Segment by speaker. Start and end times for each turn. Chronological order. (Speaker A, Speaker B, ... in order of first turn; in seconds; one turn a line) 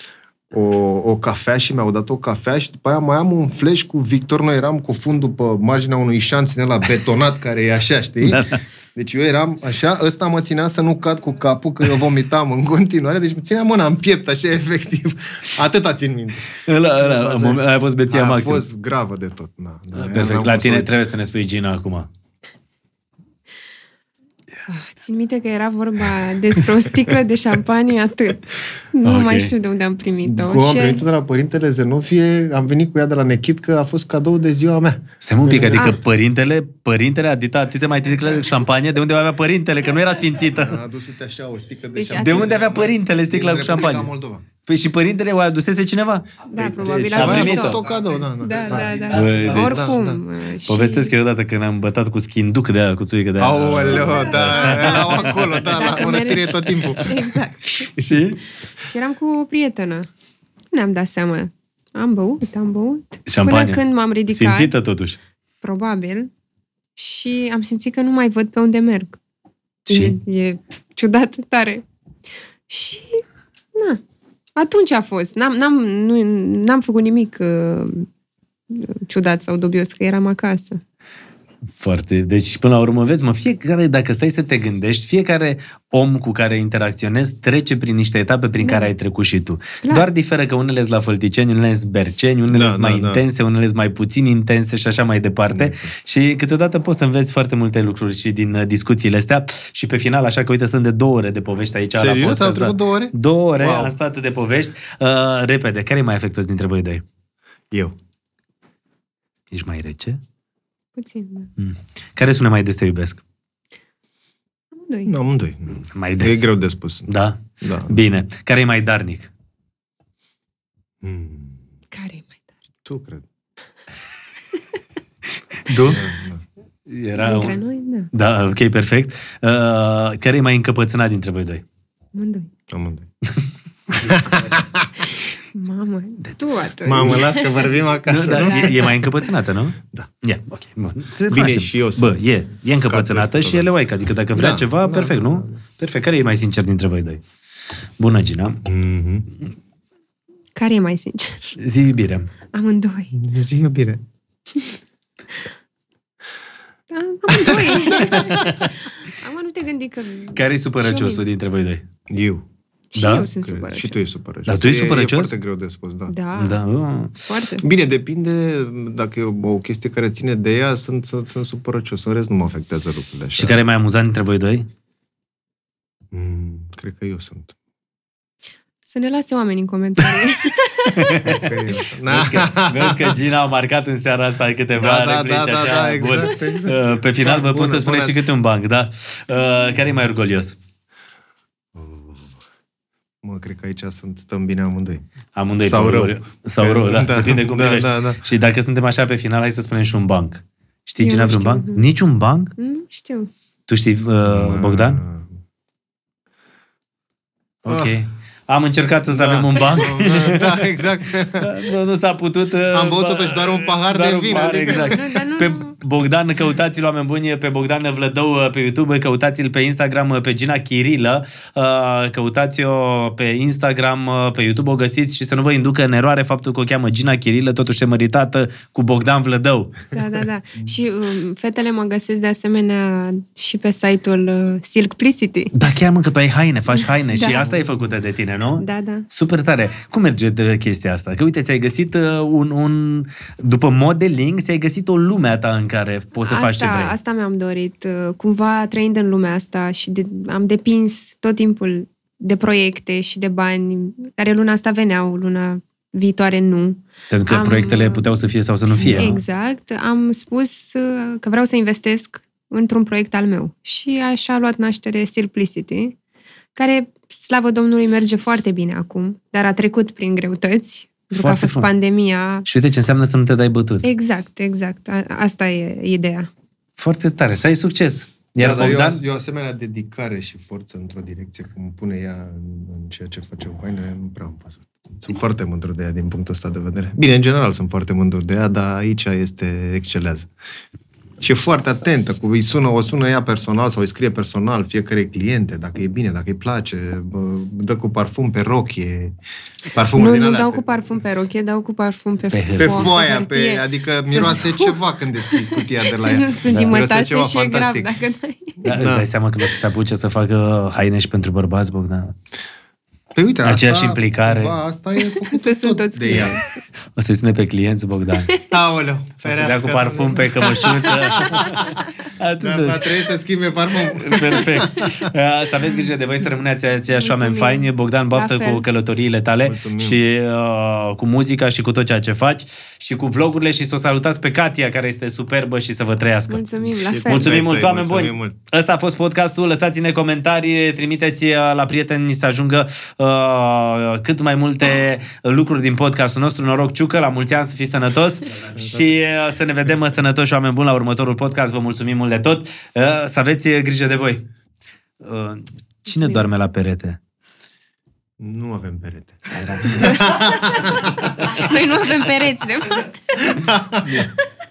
Speaker A: 0.5-20.9
Speaker B: 8.2-8.6
Speaker B: 16.6-18.7
Speaker B: 19.9-22.1
Speaker C: 24.7-31.1
Speaker B: 29.1-29.5
Speaker A: 30.2-36.0
Speaker B: 35.2-40.8
Speaker A: 40.5-44.5
Speaker C: 42.0-42.5
Speaker B: 42.2-44.1
Speaker B: 44.6-46.3
Speaker C: 46.5-51.1
Speaker A: 46.5-50.2
Speaker B: 47.1-47.8
Speaker B: 49.1-50.0
Speaker B: 50.7-56.4
Speaker A: 53.4-57.3
Speaker C: 53.9-57.9
Speaker B: 57.8-58.4
Speaker C: 58.8-60.1
Speaker C: 60.7-64.7
Speaker B: 63.3-65.2
Speaker C: 65.6-66.3
Speaker C: 67.0-69.2
Speaker C: 69.9-71.8
Speaker B: 69.9-70.2
Speaker C: 72.7-73.2
Speaker C: 73.8-74.0
Speaker C: 74.6-78.1
Speaker C: 78.7-80.8
Speaker B: 81.8-107.0
Speaker C: 88.6-88.9
Speaker A: 92.5-93.2
Speaker A: 95.5-95.9
Speaker A: 102.0-104.0
Speaker B: 109.5-110.2
Speaker C: 111.0-111.5
Speaker B: 111.6-113.2
Speaker C: 114.8-115.1
Speaker A: 115.1-117.1
Speaker B: 115.8-116.5
Speaker B: 117.1-119.3
Speaker A: 117.6-118.0
Speaker A: 121.0-121.6
Speaker C: 121.9-122.5
Speaker A: 122.8-123.3
Speaker B: 125.7-126.0
Speaker A: 125.9-126.4
Speaker B: 126.9-127.6
Speaker C: 127.2-128.1
Speaker B: 128.1-131.6
Speaker C: 132.1-132.5
Speaker A: 132.7-133.1
Speaker B: 133.3-134.3
Speaker A: 133.9-134.9
Speaker C: 135.0-137.7
Speaker A: 136.8-138.9
Speaker B: 138.1-147.2
Speaker C: 138.3-138.9
Speaker A: 141.3-142.2
Speaker A: 142.8-143.7
Speaker A: 144.3-145.6
Speaker B: 148.0-148.6
Speaker A: 148.7-149.3
Speaker C: 150.6-151.6
Speaker B: 151.6-152.3
Speaker C: 152.5-153.2
Speaker A: 153.1-154.0
Speaker C: 156.9-161.2
Speaker A: 157.3-158.5
Speaker B: 160.3-161.8
Speaker A: 162.1-162.4
Speaker C: 162.9-164.0
Speaker B: 163.0-163.3
Speaker A: 163.4-166.1
Speaker B: 164.5-165.3
Speaker C: 166.1-166.6
Speaker B: 166.4-167.2
Speaker C: 167.2-167.7
Speaker A: 167.6-173.6
Speaker B: 173.3-174.7
Speaker A: 176.1-177.5
Speaker C: 178.9-181.2
Speaker B: 180.9-181.6
Speaker A: 181.2-183.2
Speaker B: 182.1-190.6
Speaker A: 184.8-188.2
Speaker A: 191.7-192.4
Speaker A: 193.2-195.0
Speaker B: 195.3-202.5
Speaker A: 195.6-198.2
Speaker C: 201.0-201.8
Speaker C: 202.6-203.3
Speaker B: 203.7-205.0
Speaker A: 204.2-205.3
Speaker B: 207.6-229.8
Speaker A: 207.7-208.0
Speaker A: 209.1-211.6
Speaker C: 209.6-209.9
Speaker A: 212.7-215.0
Speaker C: 214.5-215.8
Speaker C: 229.9-235.5
Speaker B: 235.5-246.9
Speaker C: 236.8-237.6
Speaker C: 238.6-239.1
Speaker C: 246.2-258.1
Speaker B: 257.1-259.2
Speaker A: 258.8-259.2
Speaker C: 259.0-266.0
Speaker C: 266.6-272.5
Speaker B: 271.1-271.7
Speaker B: 272.5-273.9
Speaker C: 273.8-276.3
Speaker B: 276.8-279.0
Speaker A: 278.4-290.3
Speaker A: 291.2-299.2
Speaker A: 299.7-300.7
Speaker C: 299.8-308.6
Speaker B: 302.3-302.9
Speaker A: 302.6-307.9
Speaker B: 306.5-306.8
Speaker A: 308.6-309.1
Speaker B: 308.6-312.1
Speaker A: 313.1-316.4
Speaker B: 313.4-314.5
Speaker C: 315.2-316.5
Speaker B: 316.9-318.3
Speaker C: 318.3-318.6
Speaker A: 318.5-321.9
Speaker B: 319.2-322.9
Speaker A: 322.4-325.1
Speaker B: 323.9-336.4
Speaker C: 326.9-328.7
Speaker A: 329.4-330.0
Speaker C: 336.3-337.4
Speaker A: 336.7-338.4
Speaker B: 337.1-354.2
Speaker A: 348.5-348.9
Speaker B: 355.0-357.0
Speaker C: 355.9-356.3
Speaker A: 358.2-361.1
Speaker B: 359.3-360.3
Speaker C: 359.8-363.4
Speaker A: 363.2-363.9
Speaker B: 363.8-364.1